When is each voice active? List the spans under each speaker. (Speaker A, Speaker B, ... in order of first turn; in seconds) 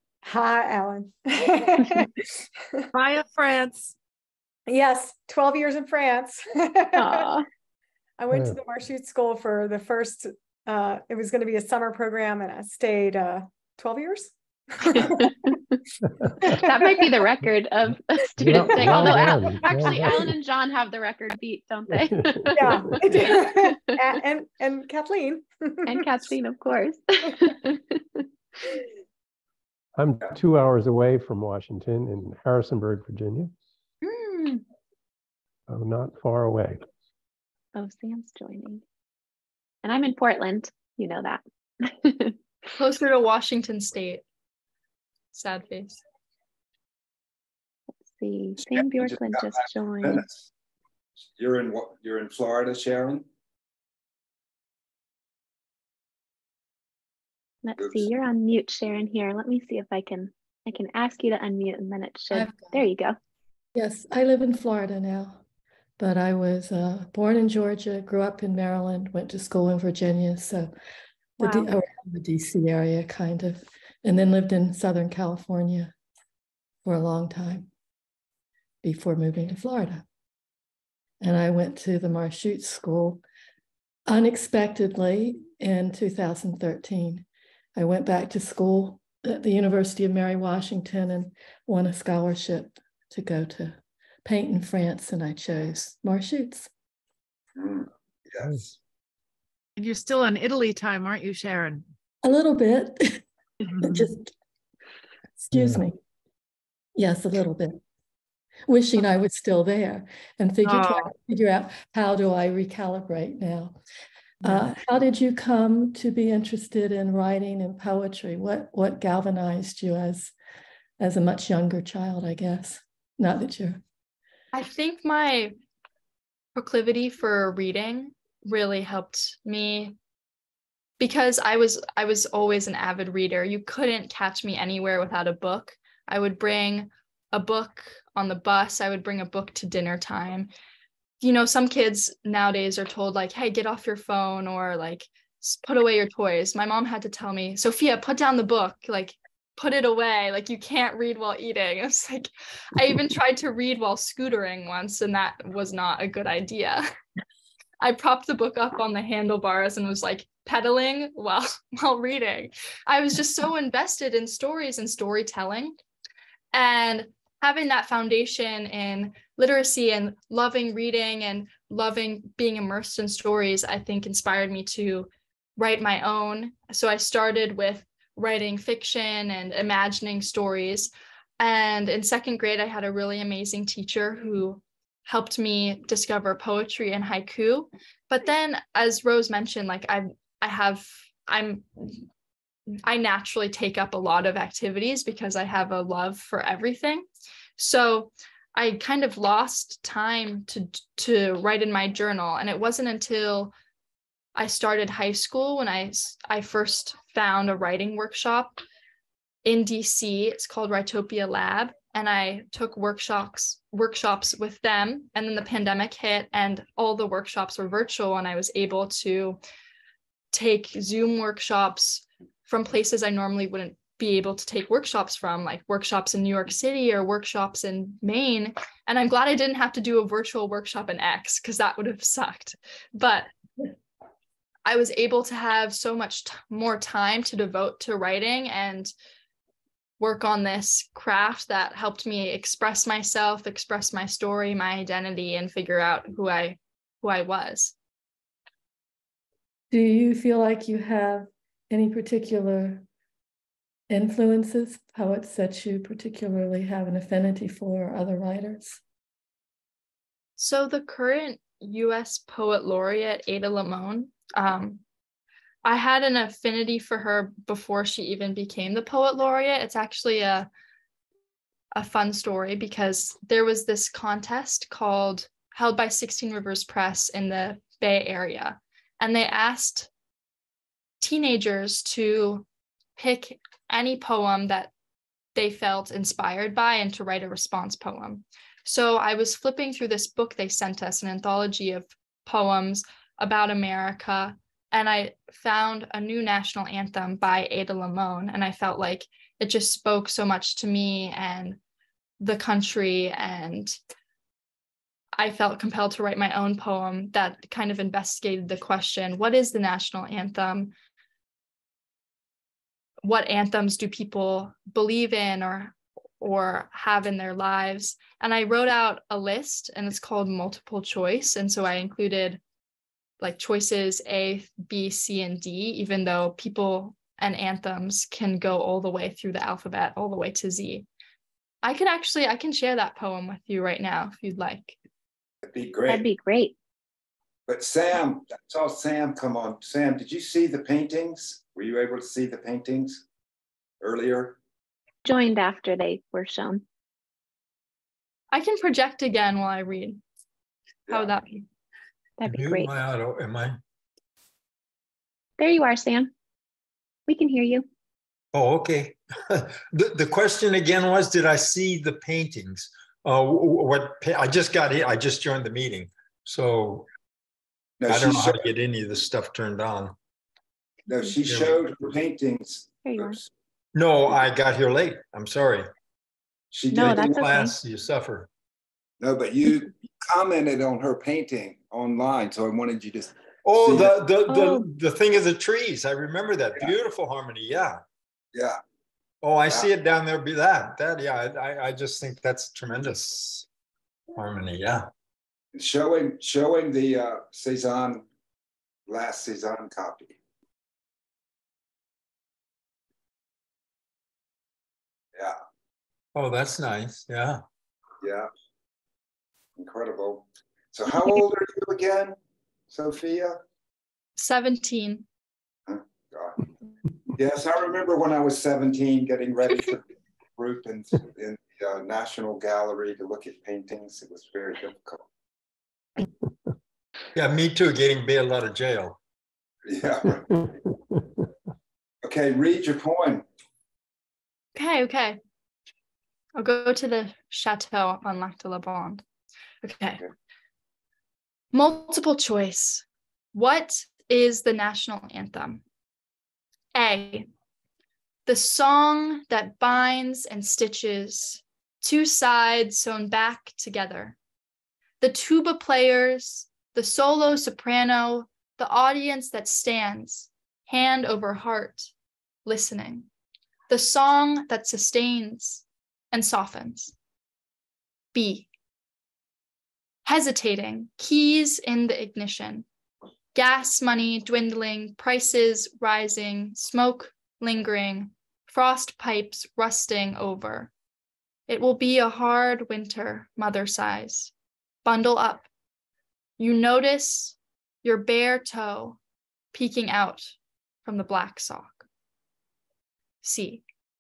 Speaker A: 0.2-2.8, 4.7-7.3, 8.2-15.3, 16.5-17.2, 18.7-19.2, 22.5-26.1
Speaker B: 2.9-3.9, 99.8-101.9, 103.7-104.1, 110.6-111.1
Speaker C: 6.9-7.5, 15.0-15.7, 16.6-23.9, 25.9-28.2, 37.7-38.8, 39.8-42.4, 48.1-50.2, 57.6-63.2, 71.4-71.7, 335.9-336.5, 345.1-346.6, 352.2-352.7, 355.4-356.1, 357.1-357.7, 372.8-373.2, 376.7-377.5, 384.3-384.6
Speaker D: 8.3-8.6, 18.4-20.3, 21.9-22.9, 29.9-33.5, 35.7-36.8, 105.5-105.8
Speaker E: 34.0-34.6, 42.8-44.2, 45.3-46.0, 124.5-125.5, 126.5-129.9, 131.0-140.5, 141.2-156.9, 157.8-165.7, 166.5-192.1, 192.8-197.1, 197.6-203.5, 204.3-208.6, 209.4-219.4, 220.3-233.3, 234.6-238.9, 240.0-247.7, 260.4-264.8, 265.6-270.5, 271.7-279.9, 281.0-282.4, 283.0-284.7, 285.3-301.6, 302.2-303.8, 305.1-310.7, 313.0-322.4, 323.2-330.9, 331.6-334.8, 348.3-350.0, 350.9-351.4, 414.2-415.0, 434.5-435.2, 436.4-439.0, 439.6-440.0, 441.5-445.6, 446.7-447.2, 448.2-454.1, 455.0-461.9, 462.4-463.1, 463.7-466.9, 468.1-468.5, 470.1-472.6, 473.3-480.7, 481.5-484.3, 484.8-485.4, 486.4-489.0, 489.5-490.3, 490.8-491.8, 493.2-493.6
Speaker F: 48.6-50.5, 51.3-53.2, 57.8-58.1, 97.6-98.7, 335.4-336.1, 337.5-343.0, 343.8-344.4, 367.8-368.4, 370.9-373.2, 376.5-377.4, 379.0-383.9, 388.3-388.6, 395.5-398.1, 398.9-400.2, 408.0-408.3, 409.6-412.1, 412.7-413.4, 415.7-416.5, 417.1-419.9, 420.4-425.0, 429.6-430.6, 432.0-433.2
Speaker G: 62.3-62.8, 63.7-65.4, 66.0-70.7, 71.4-75.9, 76.8-77.7, 78.8-80.0, 81.2-83.2, 84.1-96.7, 102.2-103.2, 103.8-104.3, 105.4-106.0, 107.0-107.8, 108.7-113.8, 114.4-120.3, 121.0-123.8, 249.7-252.8, 253.9-258.8
Speaker H: 352.2-353.6, 358.3-366.9, 367.9-369.9, 371.2-371.6, 373.7-375.7, 376.7-378.3, 383.4-387.8, 389.2-393.4, 394.1-394.9, 406.1-407.4, 427.1-429.0